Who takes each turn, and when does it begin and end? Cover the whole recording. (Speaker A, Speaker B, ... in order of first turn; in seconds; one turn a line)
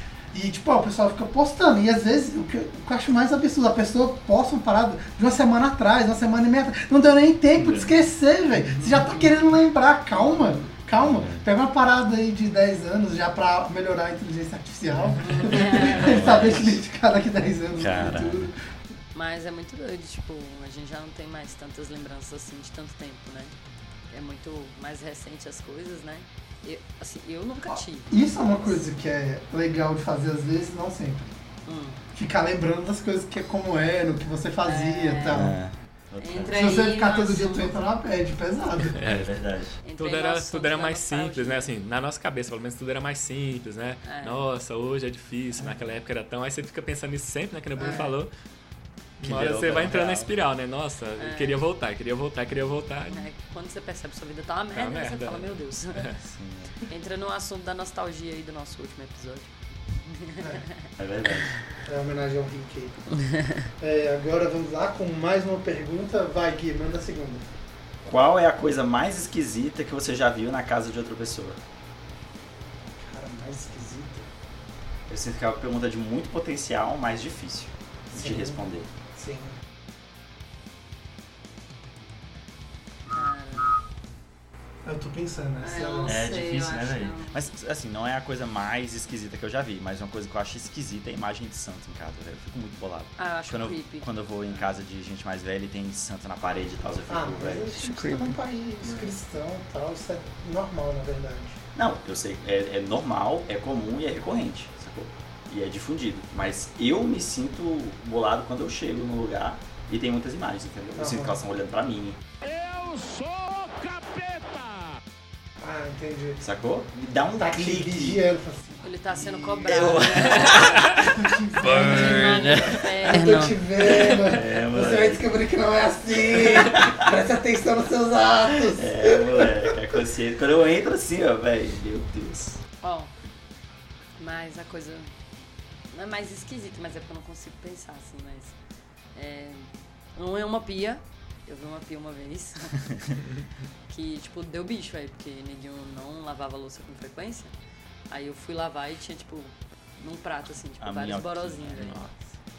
Speaker A: 0.3-18.6
Speaker B: 8.7-9.3
Speaker B: 10.1-10.7
Speaker C: 10.9-11.4
Speaker B: 15.2-16.6
Speaker C: 15.7-16.7
Speaker C: 17.7-18.5
Speaker B: 19.1-23.5
Speaker B: 24.1-28.8
Speaker A: 27.7-31.3
Speaker B: 31.6-32.0
Speaker A: 32.1-35.5
Speaker B: 34.6-35.5
Speaker C: 35.3-36.6
Speaker B: 36.2-37.8
Speaker A: 36.5-39.0
Speaker D: 38.9-39.3
Speaker C: 39.0-39.8
Speaker B: 39.8-41.7
Speaker D: 40.0-48.3
Speaker B: 44.0-44.4
Speaker A: 47.8-48.1
Speaker C: 49.2-50.4
Speaker D: 49.2-53.3
Speaker B: 51.2-51.6
Speaker B: 53.1-56.1
Speaker D: 54.7-56.2
Speaker C: 56.2-56.8
Speaker B: 56.9-60.9
Speaker C: 61.0-61.6
Speaker A: 61.8-63.0
Speaker B: 63.1-63.7
Speaker A: 63.8-67.5
Speaker C: 68.0-71.6
Speaker A: 73.0-74.3
Speaker C: 75.1-78.9
Speaker A: 78.1-79.6
Speaker B: 83.1-83.7
Speaker A: 84.8-86.3
Speaker B: 85.6-87.5
Speaker C: 86.0-97.8
Speaker B: 93.2-94.1
Speaker A: 97.1-101.6
Speaker C: 101.7-112.2
Speaker A: 110.9-111.4
Speaker E: 112.4-115.0
Speaker A: 115.6-116.4
Speaker C: 116.4-118.2
Speaker A: 117.4-130.0
Speaker B: 118.8-120.9
Speaker C: 119.7-120.8
Speaker B: 121.6-123.6
Speaker C: 121.7-122.8
Speaker C: 124.1-125.2
Speaker C: 126.3-127.0
Speaker C: 128.7-132.6
Speaker B: 132.8-133.1
Speaker B: 134.2-135.1
Speaker B: 135.9-138.5
Speaker B: 139.1-142.9
Speaker B: 143.9-147.5
Speaker B: 148.1-152.0
Speaker C: 150.8-151.9
Speaker D: 151.8-152.1